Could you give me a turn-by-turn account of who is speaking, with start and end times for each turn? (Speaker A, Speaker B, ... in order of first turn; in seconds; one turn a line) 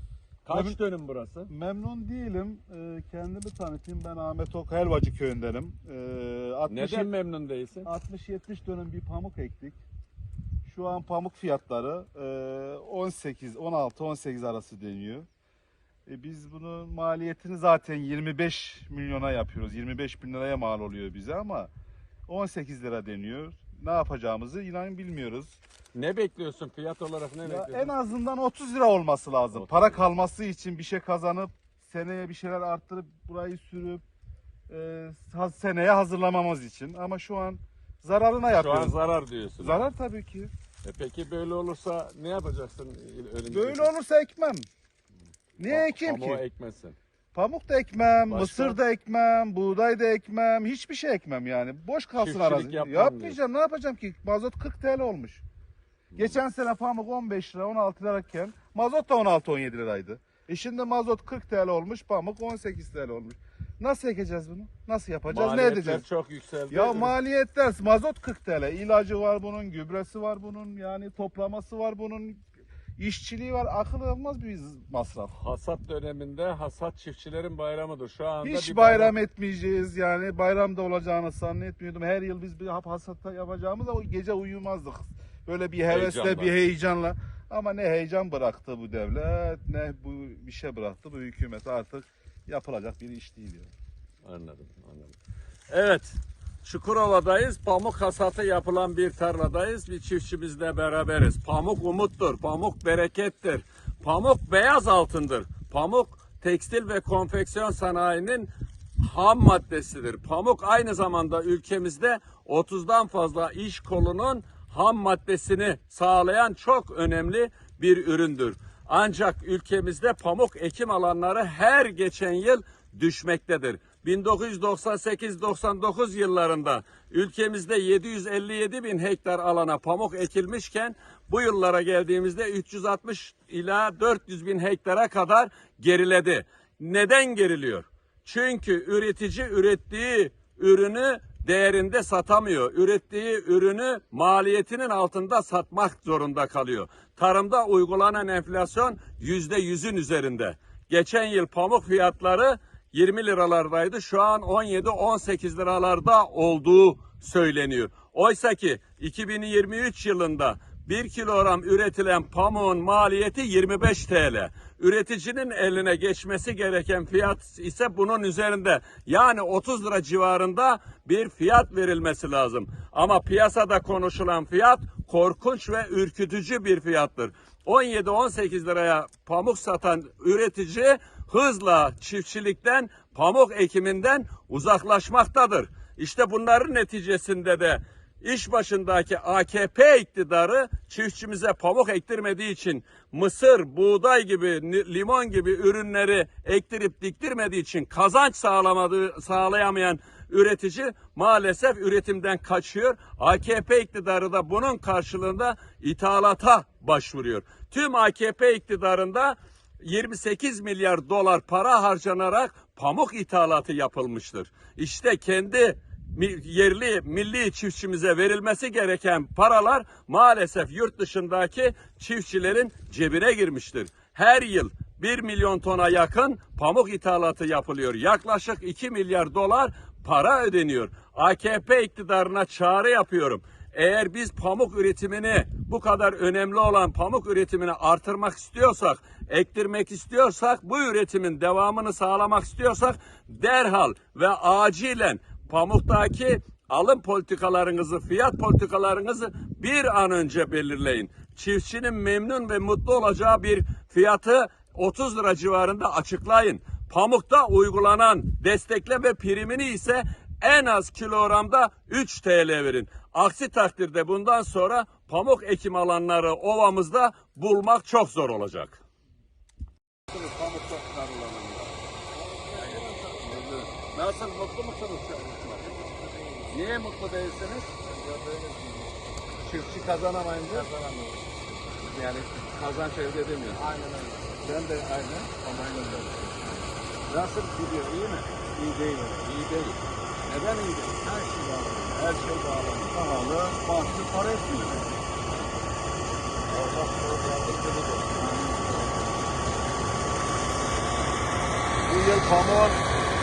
Speaker A: 0.4-1.5
Speaker B: 0.5-0.8
Speaker B: 1.5-7.1
Speaker A: 6.7-7.9
Speaker B: 7.8-9.8
Speaker B: 10.6-15.3
Speaker B: 16.1-21.7
Speaker B: 22.3-25.6
Speaker A: 25.9-27.9
Speaker B: 27.4-34.0
Speaker A: 29.5-30.0
Speaker B: 34.7-39.0
Speaker A: 38.5-39.8
Speaker B: 39.6-40.5
Speaker A: 40.8-44.0
Speaker B: 43.5-44.6
Speaker B: 45.6-46.4
Speaker A: 45.6-47.0
Speaker B: 47.3-55.4
Speaker A: 48.3-48.8
Speaker A: 52.1-53.4
Speaker A: 56.1-56.4
Speaker B: 56.1-66.0
Speaker A: 65.3-67.1
Speaker B: 66.7-72.4
Speaker B: 73.0-75.3
Speaker A: 75.3-79.2
Speaker B: 78.4-93.7
Speaker A: 85.9-86.5
Speaker A: 94.2-95.1
Speaker A: 95.7-268.8
Speaker A: 270.1-271.8
Speaker C: 272.2-272.9
Speaker A: 272.5-275.8
Speaker C: 275.5-276.7
Speaker A: 276.5-277.8
Speaker C: 277.8-278.9
Speaker A: 279.4-281.1
Speaker C: 280.5-281.1
Speaker A: 281.8-283.7
Speaker C: 283.6-284.5
Speaker A: 284.4-286.2
Speaker C: 285.4-286.3
Speaker A: 287.1-288.5
Speaker C: 288.6-289.2
Speaker A: 289.1-293.0
Speaker C: 291.1-291.8
Speaker B: 292.9-294.8
Speaker A: 296.5-298.0
Speaker C: 296.6-299.1
Speaker A: 301.9-302.8